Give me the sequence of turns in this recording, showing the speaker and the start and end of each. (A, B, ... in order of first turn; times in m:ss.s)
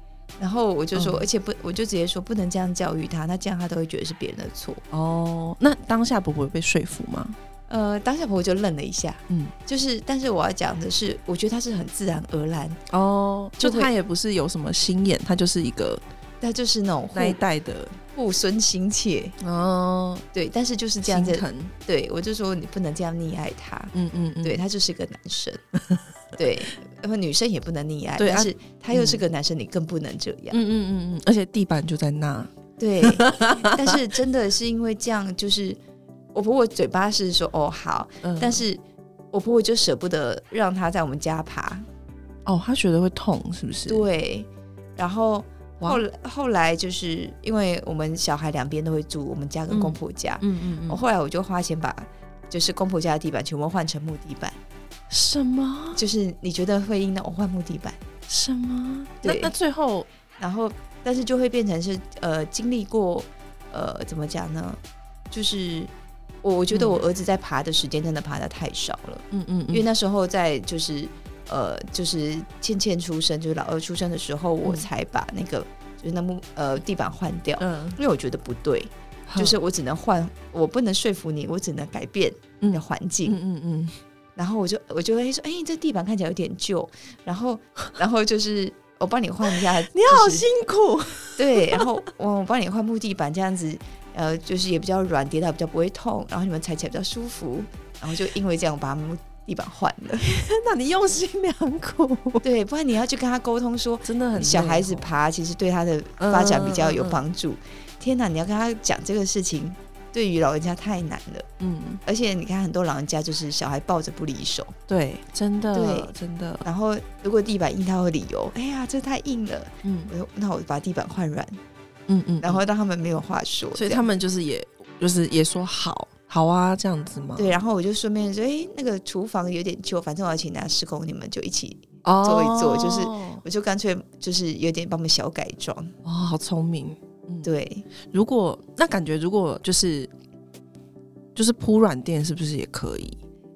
0:00.4-0:04.8 A
0:00.9-0:01.2 B
0:04.9-0:07.4 B
0:07.7-0:12.8 A
0:12.9-0:16.0 B
0:13.6-0:13.9 A
0:16.4-0:17.4 A
0:17.1-0:18.0 B
0:18.1-0:19.4 A
0:19.4-0:20.2 B
0:20.3-0:25.6 A
0:21.0-0:21.7 B
0:23.9-0:24.6 B
0:26.4-0:30.6 A
0:28.2-0:29.2 B
0:30.5-0:32.5 B
0:32.8-0:35.8 A
0:33.0-0:33.9 B
0:36.3-0:38.8 A
0:38.2-0:38.6 B
0:39.3-0:41.8 A
0:42.5-0:44.0 B
0:43.9-0:54.6 A
0:49.7-0:51.0 B
0:55.1-0:56.0 B
0:55.9-0:58.0 A
0:58.3-1:00.1 B
0:59.2-0:59.5 A
1:00.4-1:04.8 A
1:05.3-1:05.9 A
1:06.4-1:23.4 A
1:06.7-1:07.0 B
1:09.3-1:09.8 B
1:17.6-1:18.0 B
1:19.3-1:19.6 B
1:22.6-1:23.9 B
1:24.4-1:30.5 A
1:29.6-1:31.9 B
1:31.4-1:40.4 A
1:40.2-1:42.4 B
1:42.4-1:51.5 A
1:44.0-1:45.2 B
1:46.2-1:47.2 B
1:51.6-1:52.0 B
1:52.0-1:54.8 A
1:54.9-1:56.6 B
1:55.7-1:56.1 A
1:56.6-2:01.6 A
1:59.8-2:00.1 B
2:02.1-2:02.6 B
2:02.4-2:04.0 A
2:03.7-2:07.5 B
2:07.4-2:15.9 A
2:12.0-2:13.4 B
2:16.0-2:17.5 B
2:17.4-2:17.9 A
2:18.1-2:20.1 B
2:21.3-2:23.2 B